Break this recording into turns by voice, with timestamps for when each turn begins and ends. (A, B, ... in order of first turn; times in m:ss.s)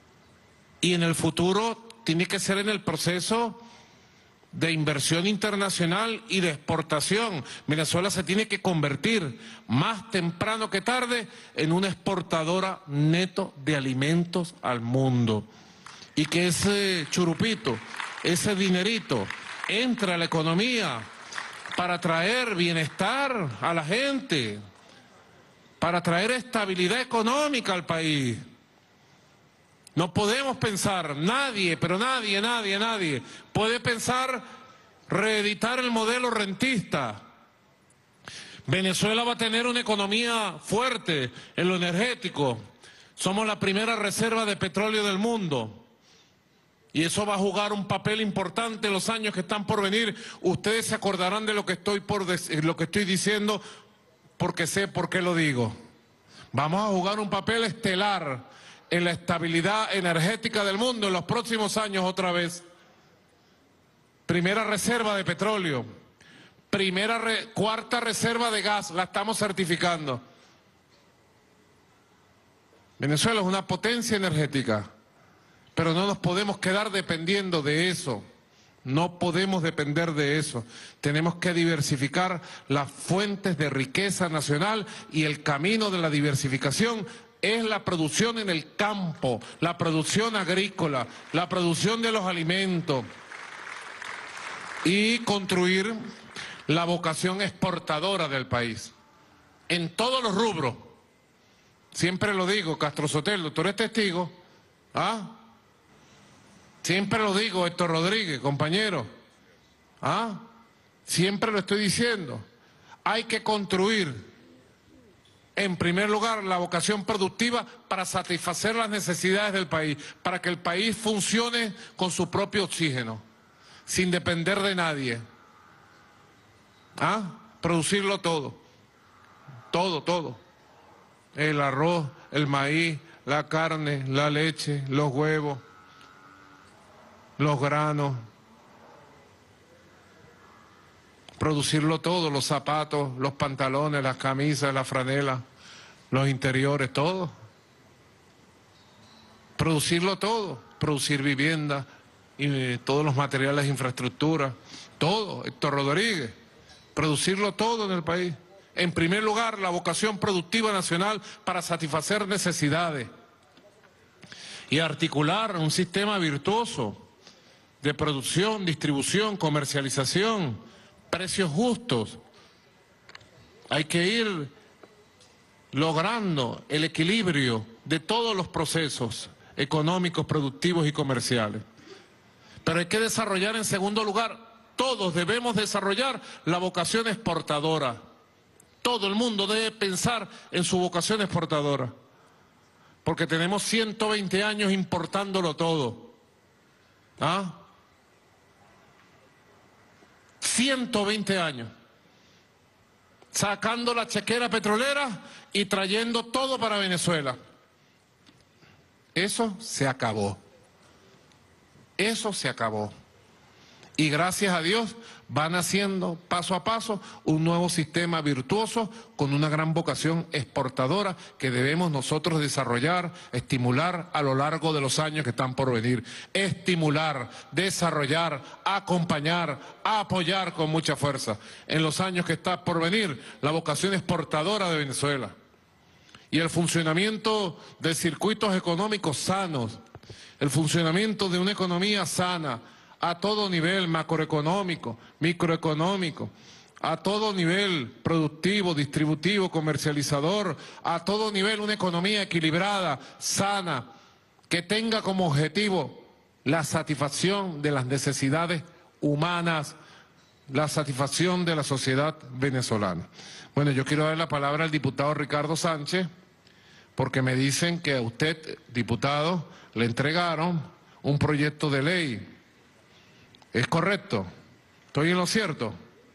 0:00.8-0:03.6 A
0:04.5-0:15.5 A
0:16.2-0:21.1 A
0:21.8-0:24.6 A
0:25.8-0:28.4 A
0:30.0-0:34.5 A
0:35.1-0:37.3 A
0:38.7-0:42.6 A
0:43.2-0:45.8 A
0:46.9-0:53.6 A
0:54.4-0:55.8 A
0:56.5-1:02.6 A
1:04.3-1:05.9 A
1:06.7-1:10.2 A
1:13.0-1:14.9 A
1:15.8-1:18.3 A
1:18.8-1:33.1 A
1:34.8-1:36.0 A
1:36.7-1:38.9 A
1:39.7-1:40.9 A
1:41.9-1:44.4 A
1:44.9-1:45.4 A
1:46.8-1:49.1 A
1:50.0-1:50.5 A
1:51.1-1:52.5 A
1:53.0-1:54.3 A
1:55.6-2:03.2 A
2:03.9-2:05.2 A
2:07.0-2:08.6 A
2:09.7-2:10.4 A
2:11.4-2:15.6 A
2:17.4-2:18.3 A
2:21.4-2:25.4 A
2:26.1-2:27.3 A
2:29.6-2:36.4 A
2:37.0-2:43.1 A
2:44.7-2:47.0 A
2:47.8-2:52.2 A
2:53.7-2:54.5 A
2:55.7-3:01.6 A
3:02.6-3:08.0 A
3:08.8-3:11.9 A
3:13.0-3:16.1 A
3:17.2-3:17.6 A
3:20.4-3:21.7 A
3:23.3-3:27.4 A
3:29.2-3:30.4 A
3:32.0-3:33.0 A
3:34.0-3:55.4 A
3:56.3-3:59.8 A
4:00.4-4:13.9 A
4:14.5-4:19.8 A
4:20.5-4:26.1 A
4:27.0-4:32.3 A
4:33.5-4:34.3 A
4:34.9-4:35.8 A